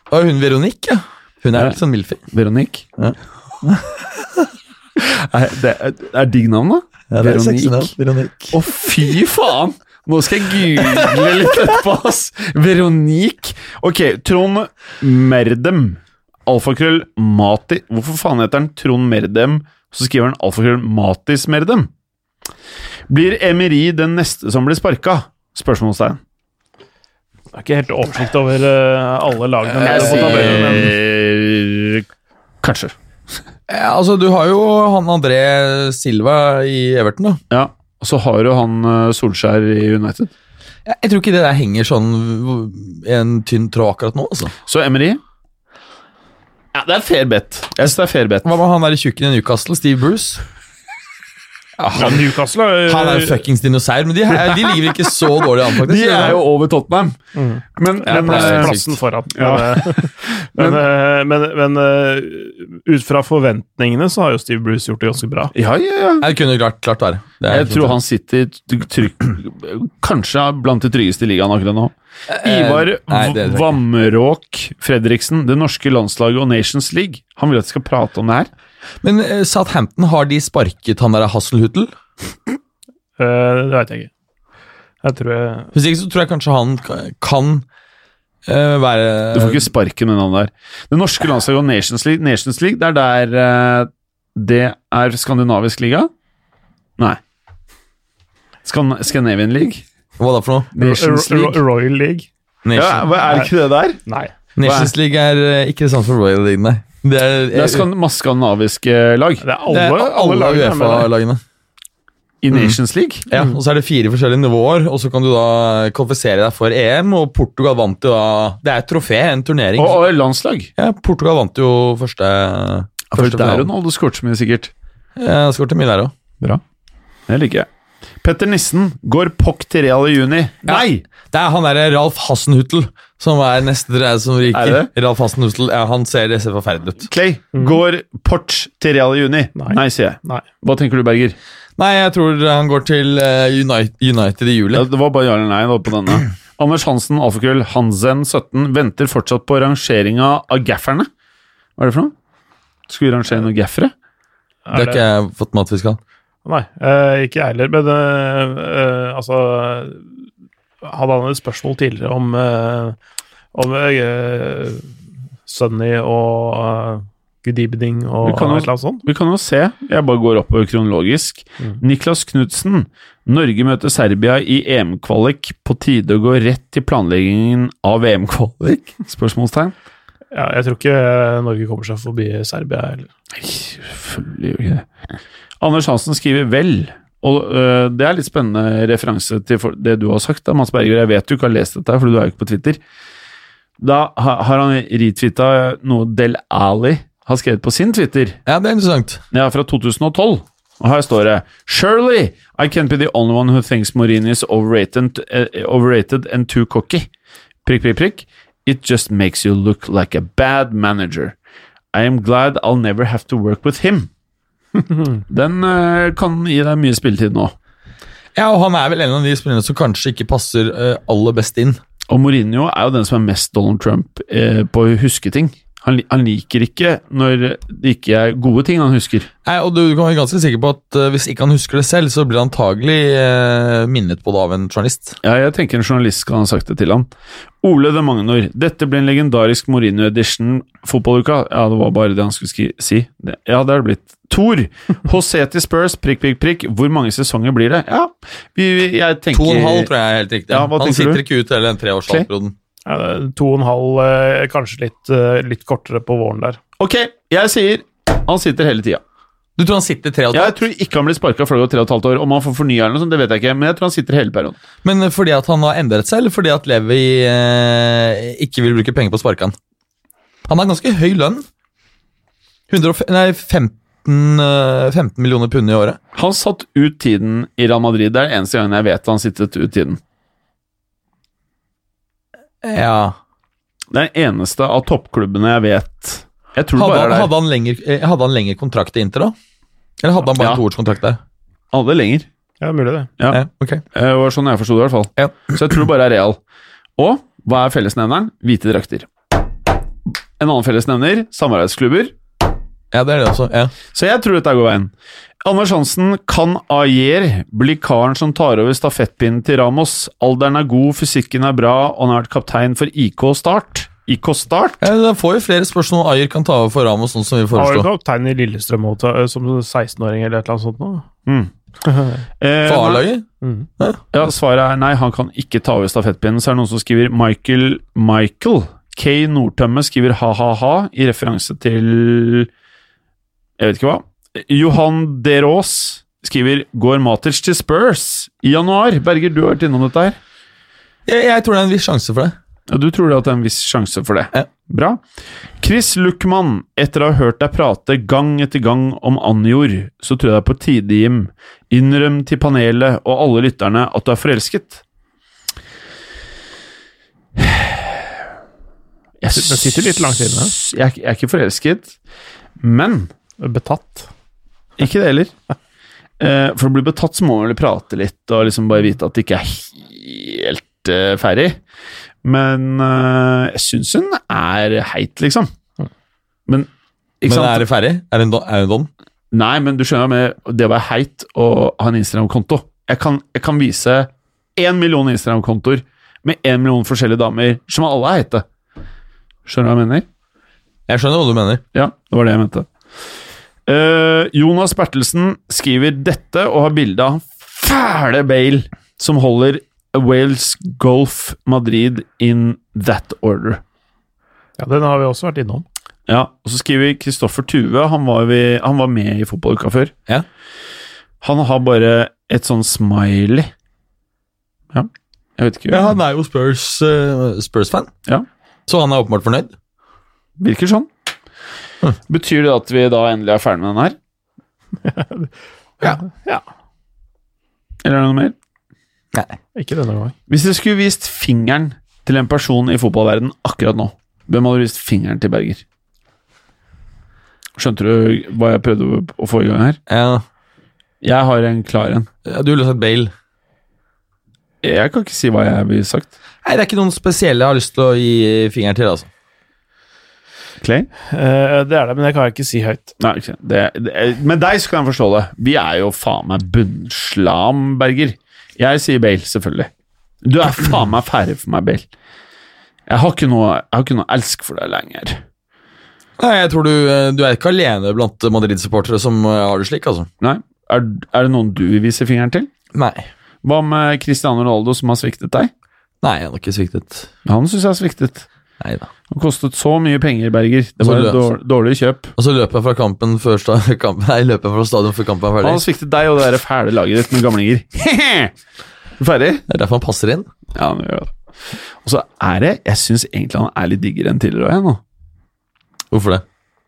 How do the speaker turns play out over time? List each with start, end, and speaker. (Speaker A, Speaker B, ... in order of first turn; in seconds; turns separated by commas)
Speaker A: 0.1-2.2, Speaker B: 2.3-2.9, Speaker A: 3.0-4.5, Speaker B: 5.0-7.9, Speaker A: 7.1-8.6, Speaker B: 8.5-21.9, Speaker A: 10.9-11.4, Speaker B: 23.1-26.2, Speaker C: 27.5-30.9, Speaker A: 29.8-30.9, Speaker B: 29.8-32.1, Speaker B: 32.6-32.9, Speaker A: 33.7-37.4, Speaker B: 37.5-40.3, Speaker A: 40.9-44.5, Speaker B: 44.7-45.2, Speaker B: 46.7-48.5, Speaker A: 48.4-50.4, Speaker A: 51.8-52.3, Speaker C: 51.9-53.5, Speaker A: 52.9-56.4, Speaker B: 55.7-57.2, Speaker C: 57.4-65.5, Speaker B: 57.8-58.8, Speaker A: 58.1-59.0, Speaker B: 59.4-60.8, Speaker B: 65.5-66.3, Speaker A: 66.2-68.0, Speaker B: 67.5-78.5, Speaker A: 72.3-73.7, Speaker A: 79.0-81.9, Speaker C: 83.2-84.1, Speaker C: 85.0-85.7, Speaker A: 85.7-87.7, Speaker A: 88.5-89.7, Speaker B: 89.3-96.1, Speaker B: 98.6-99.9, Speaker A: 100.2-101.5, Speaker B: 100.8-101.1, Speaker C: 100.8-102.3, Speaker A: 102.7-103.1, Speaker B: 102.7-104.0, Speaker C: 104.1-104.3, Speaker A: 104.6-107.9, Speaker B: 104.6-104.9, Speaker B: 107.5-109.4, Speaker C: 109.4-111.1, Speaker A: 109.7-111.4, Speaker B: 112.4-113.2, Speaker A: 112.5-120.0, Speaker B: 119.8-120.7, Speaker A: 120.8-123.7, Speaker B: 123.1-124.7, Speaker A: 125.2-126.1, Speaker B: 127.3-127.7, Speaker B: 128.2-131.0, Speaker A: 130.7-137.1, Speaker B: 134.5-134.9, Speaker B: 137.1-141.4, Speaker C: 139.6-140.4, Speaker A: 141.8-144.9, Speaker B: 144.7-151.1, Speaker B: 151.8-152.1, Speaker B: 152.9-153.9, Speaker C: 154.7-155.0, Speaker A: 154.7-156.0, Speaker C: 156.4-160.1, Speaker C: 160.8-163.0, Speaker C: 163.5-164.9, Speaker C: 165.5-169.1, Speaker B: 168.2-179.7, Speaker C: 180.3-183.1, Speaker B: 183.3-184.9, Speaker B: 185.6-192.8, Speaker B: 193.8-198.4, Speaker A: 198.5-199.2, Speaker B: 199.3-207.1, Speaker B: 207.7-211.4, Speaker B: 211.9-214.1, Speaker B: 215.3-217.6, Speaker A: 218.3-221.8, Speaker B: 222.1-229.3, Speaker A: 229.5-235.2, Speaker B: 235.2-237.1, Speaker B: 237.6-249.9, Speaker A: 249.3-252.5, Speaker B: 250.5-251.2, Speaker C: 252.9-256.6, Speaker B: 256.8-259.0, Speaker A: 259.6-260.6, Speaker B: 260.3-264.6, Speaker A: 264.8-269.6, Speaker A: 270.5-271.4, Speaker A: 272.7-276.0, Speaker B: 276.1-280.0, Speaker A: 282.6-283.2, Speaker B: 283.9-287.3, Speaker A: 286.8-289.4, Speaker A: 290.0-291.2, Speaker B: 290.4-290.6, Speaker B: 291.7-292.3, Speaker C: 292.6-293.1, Speaker A: 293.3-293.8, Speaker B: 293.9-296.4, Speaker A: 295.2-295.6, Speaker B: 297.0-299.1, Speaker B: 300.4-302.2, Speaker A: 302.9-303.7, Speaker B: 303.9-314.8, Speaker A: 314.8-317.9, Speaker C: 317.5-321.1, Speaker B: 321.3-321.5, Speaker C: 321.8-322.2, Speaker B: 322.4-323.1, Speaker A: 322.6-323.3, Speaker C: 323.4-323.7, Speaker B: 324.1-332.5, Speaker B: 333.6-340.2, Speaker A: 341.1-342.4, Speaker B: 342.7-345.0, Speaker B: 345.6-354.8, Speaker B: 357.4-358.1, Speaker B: 359.2-361.9, Speaker C: 359.3-360.5, Speaker B: 362.6-363.1, Speaker C: 363.4-364.1, Speaker B: 364.8-365.4, Speaker B: 366.2-371.6, Speaker B: 372.2-375.5, Speaker B: 377.2-377.7, Speaker A: 377.3-378.9, Speaker B: 379.3-388.4, Speaker B: 389.5-390.1, Speaker A: 390.9-391.6, Speaker B: 391.7-392.7, Speaker B: 393.7-403.6, Speaker C: 404.6-405.6, Speaker B: 406.1-409.9, Speaker B: 411.2-413.5, Speaker B: 414.7-415.9, Speaker A: 415.7-417.9, Speaker A: 418.7-419.5, Speaker B: 420.4-420.9, Speaker B: 422.1-424.0, Speaker C: 424.8-425.3, Speaker C: 425.9-426.4, Speaker B: 427.8-428.4, Speaker C: 429.6-430.1, Speaker B: 430.3-435.6, Speaker B: 437.6-439.8, Speaker A: 439.9-440.2, Speaker B: 441.0-442.1, Speaker A: 442.2-443.1, Speaker B: 444.6-446.1, Speaker A: 446.4-449.1, Speaker B: 450.6-450.9, Speaker C: 451.1-452.9, Speaker B: 453.0-459.7, Speaker B: 460.2-461.9, Speaker B: 462.9-465.2, Speaker A: 466.2-470.1, Speaker B: 470.2-472.5, Speaker A: 472.7-473.1, Speaker B: 473.4-475.5, Speaker A: 476.0-477.1, Speaker B: 477.2-478.3, Speaker A: 478.6-478.9, Speaker B: 479.1-482.1, Speaker A: 480.8-481.3, Speaker A: 482.2-485.6, Speaker B: 485.4-488.3, Speaker B: 489.0-489.4, Speaker A: 489.5-490.3, Speaker B: 490.6-494.8, Speaker A: 495.9-496.2